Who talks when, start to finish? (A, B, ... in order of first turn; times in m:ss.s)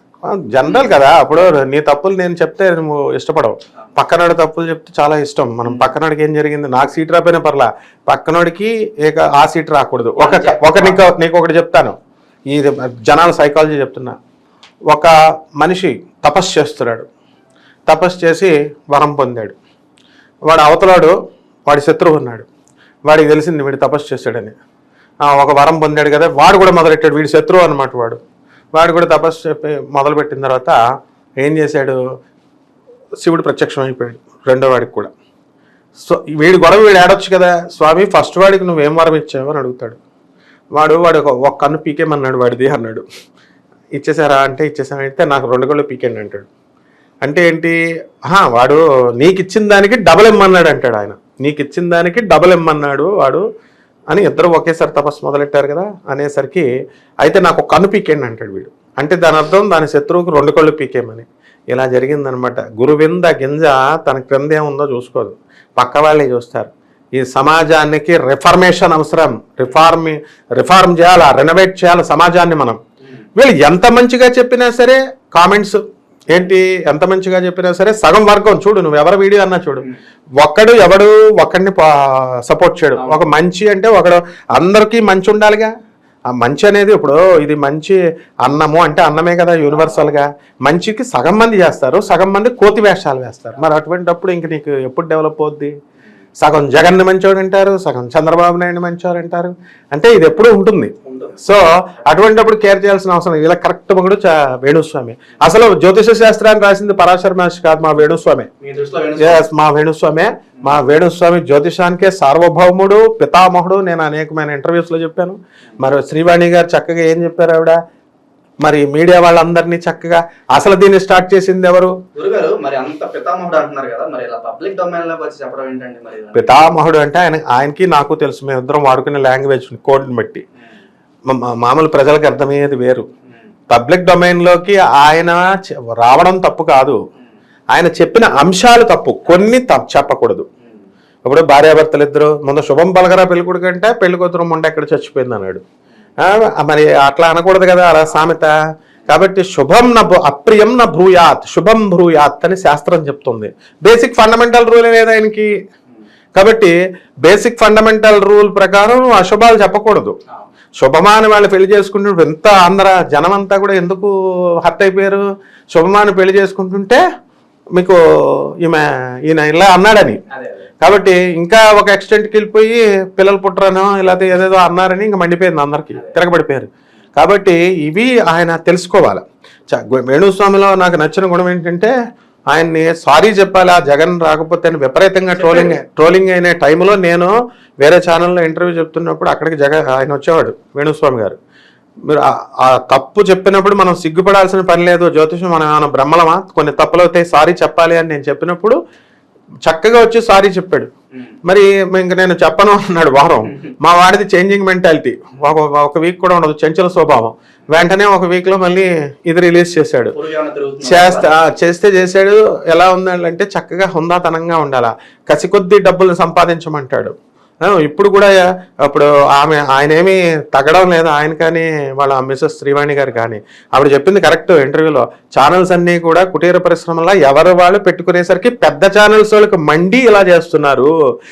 0:00.3-0:12.0 A
0:00.6-0:01.0 B
0:10.2-0:11.0 B
0:12.5-0:14.2 A
0:14.9-0:17.1 A
0:17.9-0:19.6 A
0:20.5-0:22.5 A
0:23.1-0:24.6 A
0:25.2-0:28.2 A
0:28.7-0:30.8 A
0:31.4-0:32.0 A
0:33.2-0:35.1 A
0:36.0-0:40.0 A
0:40.8-0:43.0 A
0:44.0-0:46.5 A
0:47.2-0:53.4 A
0:54.1-0:56.7 A
0:57.2-1:12.8 A
1:13.4-1:15.8 A
1:16.3-1:19.9 A
1:20.4-1:25.7 A
1:26.3-1:35.7 A
1:29.7-1:30.1 B
1:36.4-1:48.5 A
1:41.1-1:41.4 B
1:48.6-1:49.5 B
1:49.2-1:57.8 A
1:58.6-2:02.0 A
2:02.2-2:06.6 B
2:06.3-2:10.4 A
2:11.3-2:13.1 A
2:13.7-2:15.4 A
2:15.9-2:17.0 A
2:17.7-2:20.5 A
2:21.2-2:25.6 A
2:26.2-2:28.5 A
2:29.1-2:35.5 A
2:36.3-2:40.2 A
2:40.8-2:44.1 A
2:44.6-2:47.0 A
2:48.6-2:50.2 A
2:50.3-2:50.7 B
2:50.8-3:01.9 A
3:02.5-3:07.3 A
3:05.4-3:05.7 B
3:07.8-3:11.4 A
3:12.1-3:18.8 A
3:19.7-3:20.9 A
3:21.5-3:30.2 A
3:30.1-3:31.3 B
3:30.8-3:50.9 A